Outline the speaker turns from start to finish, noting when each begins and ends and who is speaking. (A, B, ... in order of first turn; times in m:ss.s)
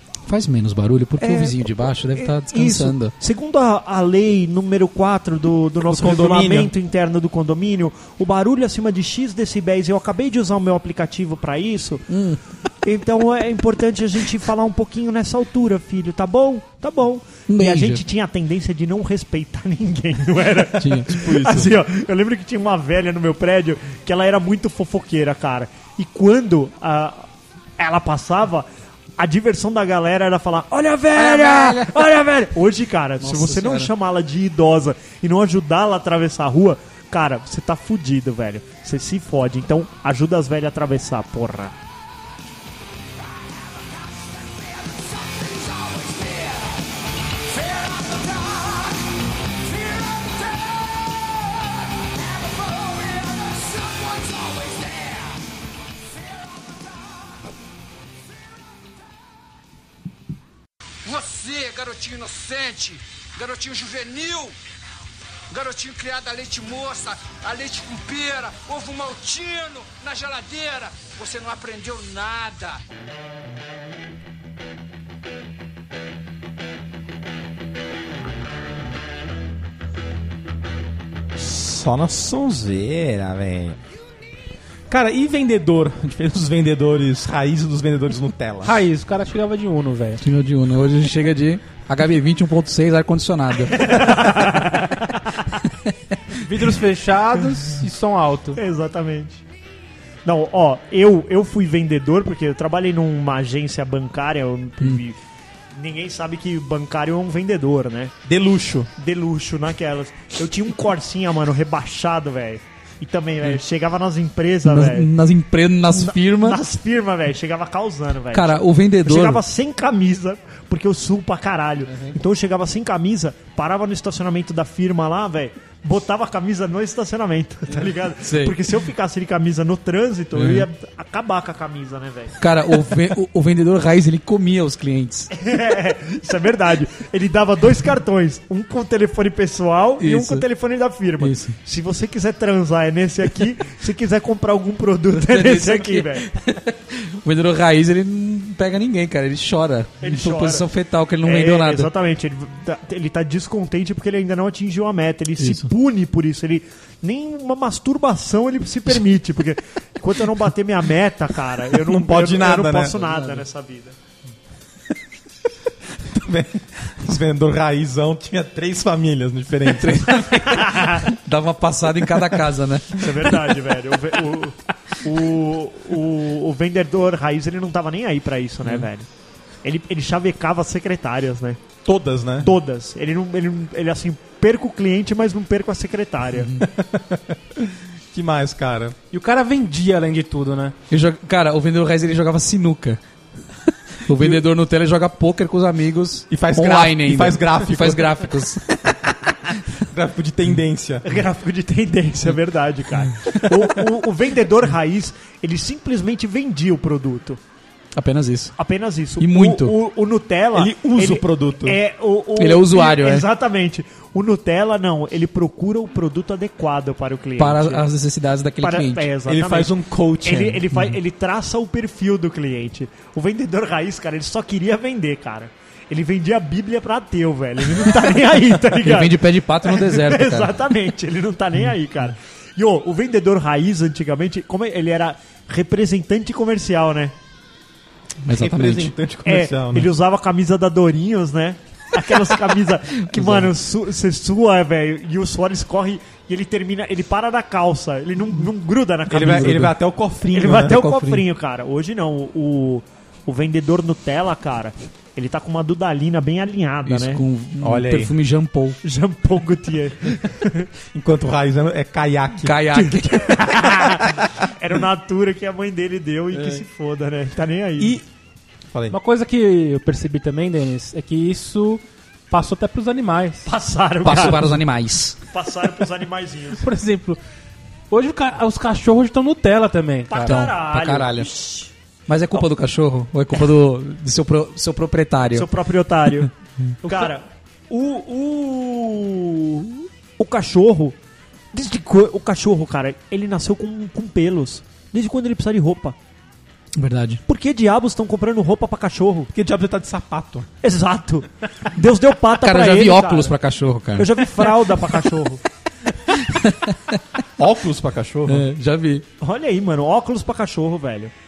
0:00.3-0:03.1 A
0:01.2-0:12.1 B
0:05.8-0:06.7 C
0:12.1-0:12.4 A
0:12.8-0:28.7 B
0:17.5-0:18.0 A
0:20.8-0:21.7 A
0:29.2-0:41.7 B
0:31.1-0:32.2 A
0:33.2-0:33.9 A
0:43.8-0:55.4 D
1:01.0-1:04.6 D
1:05.5-1:12.8 D
1:21.3-1:23.8 C
1:24.9-1:28.8 C
1:28.6-1:30.2 E
1:30.2-1:34.5 A
1:33.7-1:35.2 B
1:36.4-1:38.6 E
1:38.6-1:39.4 B
1:40.2-1:45.2 B
1:45.7-1:48.1 B
1:48.2-1:48.9 C
1:49.0-1:55.1 B
1:54.6-1:56.6 A
1:55.9-2:12.4 B
1:58.3-1:59.4 A
2:08.2-2:08.6 A
2:10.3-2:10.7 A
2:12.4-2:15.3 A
2:15.3-2:26.3 B
2:20.0-2:20.4 A
2:21.2-2:21.5 A
2:25.1-2:31.9 A
2:30.0-2:30.6 B
2:31.2-2:44.0 B
2:35.4-2:35.7 A
2:41.7-2:43.0 C
2:46.0-2:50.4 C
2:49.7-2:53.5 A
2:50.4-2:51.0 B
2:53.0-2:59.0 B
2:59.6-3:01.6 B
3:01.8-3:02.5 C
3:02.4-3:06.5 B
3:06.6-3:09.0 C
3:09.1-3:10.8 E
3:10.9-3:13.0 A
3:14.0-3:18.8 A
3:16.3-3:18.3 C
3:19.8-3:21.1 C
3:21.0-3:27.4 B
3:23.1-3:23.7 A
3:28.0-3:28.6 A
3:28.6-3:37.8 B
3:29.2-3:29.8 A
3:30.5-3:31.8 C
3:32.4-3:33.3 A
3:37.4-3:39.1 A
3:38.6-3:57.1 B
3:39.3-3:40.6 C
3:48.8-3:50.5 A
3:58.2-3:58.9 A
3:58.3-3:59.9 C
3:59.2-4:09.7 B
4:03.1-4:03.5 A
4:09.1-4:10.8 C
4:10.3-4:17.2 B
4:10.6-4:11.2 A
4:16.8-4:18.8 A
4:17.6-4:18.1 C
4:18.8-4:20.7 B
4:20.9-4:22.6 C
4:22.4-4:23.5 A
4:22.7-4:28.0 B
4:27.8-4:28.0 C
4:28.7-4:29.0 C
4:28.9-4:33.5 E
4:33.4-4:34.6 B
4:34.0-4:35.2 A
4:35.2-4:36.6 B
4:36.6-4:37.2 E
4:37.9-4:40.4 E
4:40.1-4:41.7 B
4:40.2-4:41.3 A
4:42.1-4:45.5 A
4:45.3-4:51.0 B
4:46.8-4:47.1 E
4:51.5-4:56.0 B
4:56.8-4:57.2 A
4:57.3-4:59.3 B
4:59.3-5:00.5 C
5:00.6-5:03.3 B
5:02.4-5:05.0 A
5:04.0-5:05.4 B
5:06.1-5:07.0 A
5:07.4-5:08.4 C
5:08.3-5:09.0 A
5:09.2-5:11.1 B